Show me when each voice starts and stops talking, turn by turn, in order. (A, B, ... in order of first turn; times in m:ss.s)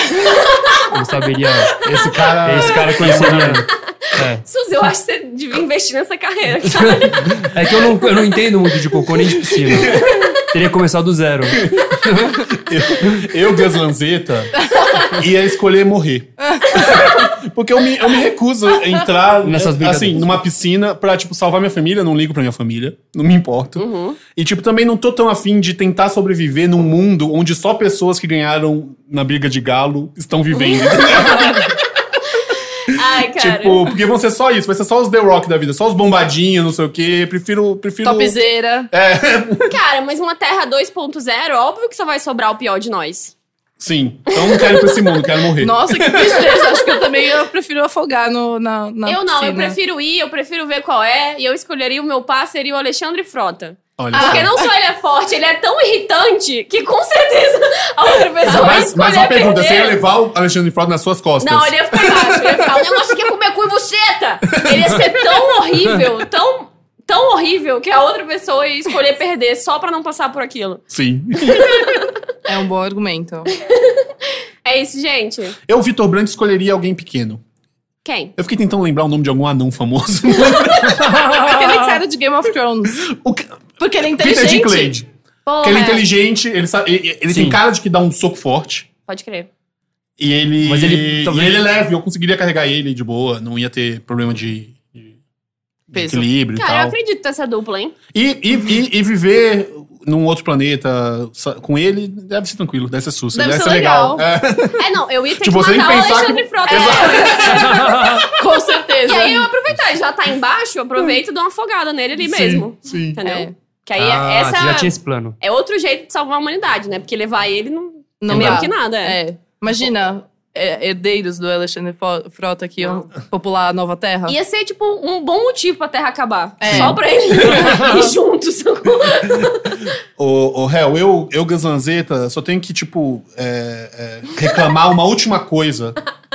0:00.2-0:00.9 A
0:00.8-0:01.8 B
0:01.8-0:03.3 A
0:01.8-0:03.7 C
0:02.4-0:04.4 B
0:04.1-0:07.9 A
0:06.6-0:12.5 B
0:09.5-0:10.3 C
0:11.5-0:31.7 C
0:14.7-0:15.1 D
0:19.4-0:20.4 B
0:23.8-0:24.2 A
0:30.5-0:31.7 A
0:32.4-0:33.9 A
0:32.9-0:39.8 C
0:38.0-0:38.9 D
0:39.7-0:43.3 A
0:43.8-0:46.6 C
0:44.3-0:45.0 A
0:45.6-0:49.8 D
0:49.1-1:00.0 A
0:54.0-0:54.5 C
0:54.1-0:54.6 D
0:58.4-1:02.8 C
1:01.4-1:10.8 A
1:04.6-1:05.2 C
1:10.9-1:12.1 C
1:11.5-1:12.0 A
1:12.5-1:13.5 D
1:13.6-1:15.6 A
1:15.7-1:17.4 C
1:18.0-1:18.3 A
1:18.4-1:21.1 C
1:20.8-1:22.0 B
1:21.4-1:23.1 D
1:23.0-1:25.1 C
1:23.8-1:24.9 D
1:25.5-1:26.1 A
1:25.6-1:28.9 C
1:27.3-1:27.6 B
1:29.1-1:29.5 A
1:30.2-1:35.2 C
1:30.6-1:31.6 B
1:35.9-1:37.0 C
1:35.9-1:36.3 D
1:36.6-1:38.0 A
1:38.1-1:44.8 C
1:43.3-1:44.2 D
1:44.8-1:48.2 A
1:45.4-1:48.1 C
1:46.7-1:47.6 D
1:47.5-1:48.3 B
1:48.4-1:49.5 D
1:49.1-1:59.2 A
1:52.2-1:53.2 C
1:53.2-1:53.5 D
1:54.0-1:55.4 B
1:58.2-2:04.4 D
1:58.3-1:58.6 B
2:04.3-2:09.9 A
2:06.6-2:08.0 D
2:06.7-2:07.0 C
2:07.5-2:08.0 B
2:10.2-2:16.0 C